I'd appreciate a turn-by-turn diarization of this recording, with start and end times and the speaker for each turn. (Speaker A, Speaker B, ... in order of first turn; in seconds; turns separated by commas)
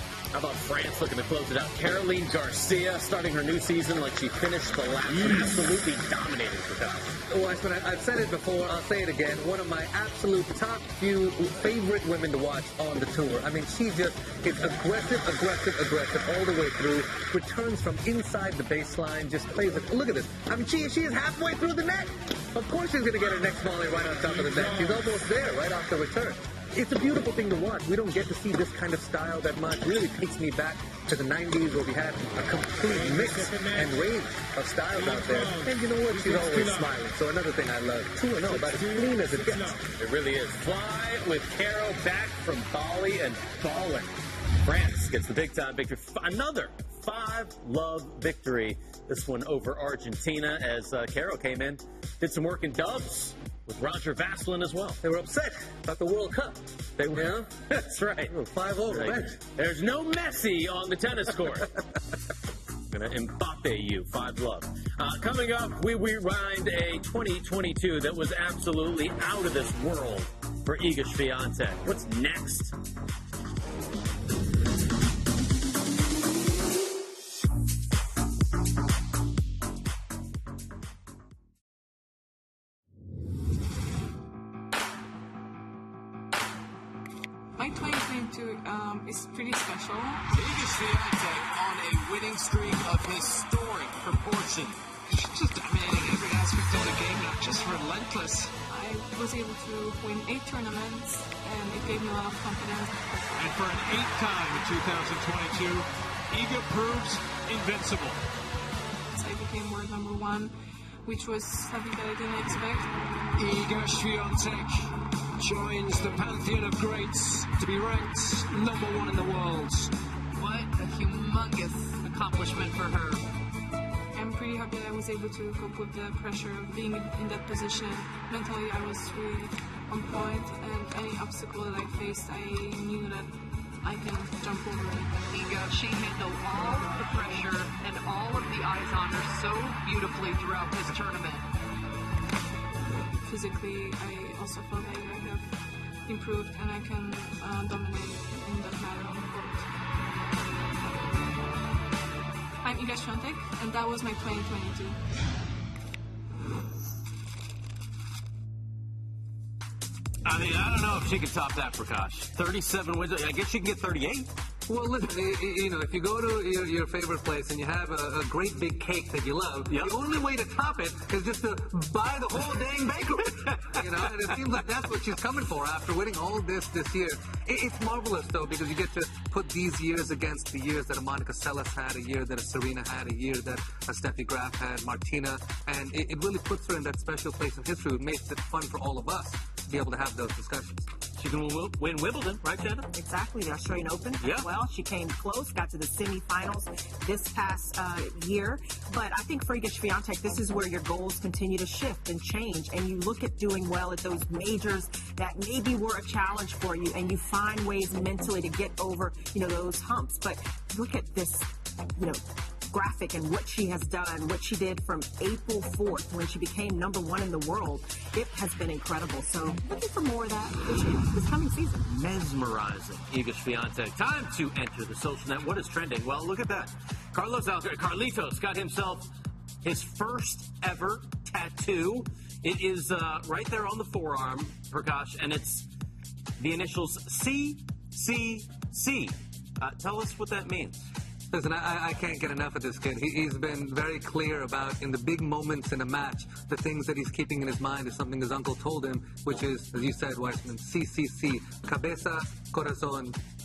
Speaker A: 0.3-7.2, Speaker B: 7.3-39.8, Speaker A: 40.0-55.0, Speaker B: 55.0-57.5, Speaker A: 57.1-61.7, Speaker B: 58.3-59.4, Speaker A: 62.9-72.8, Speaker C: 87.6-90.3, Speaker A: 90.3-94.8, Speaker D: 95.1-98.5, Speaker C: 98.7-103.0, Speaker D: 103.4-108.2, Speaker C: 109.1-110.5, Speaker C: 111.0-113.0, Speaker D: 113.4-119.9, Speaker E: 120.3-123.2, Speaker C: 124.1-135.3, Speaker E: 135.3-141.5, Speaker C: 143.3-145.5, Speaker C: 146.1-149.7, Speaker C: 152.6-155.0, Speaker A: 160.2-164.3, Speaker B: 164.7-190.9, Speaker A: 169.7-170.0, Speaker A: 191.2-192.9, Speaker F: 192.9-221.9, Speaker A: 194.2-194.5, Speaker A: 221.8-229.1, Speaker A: 229.6-235.7, Speaker A: 236.4-240.9, Speaker B: 241.3-253.2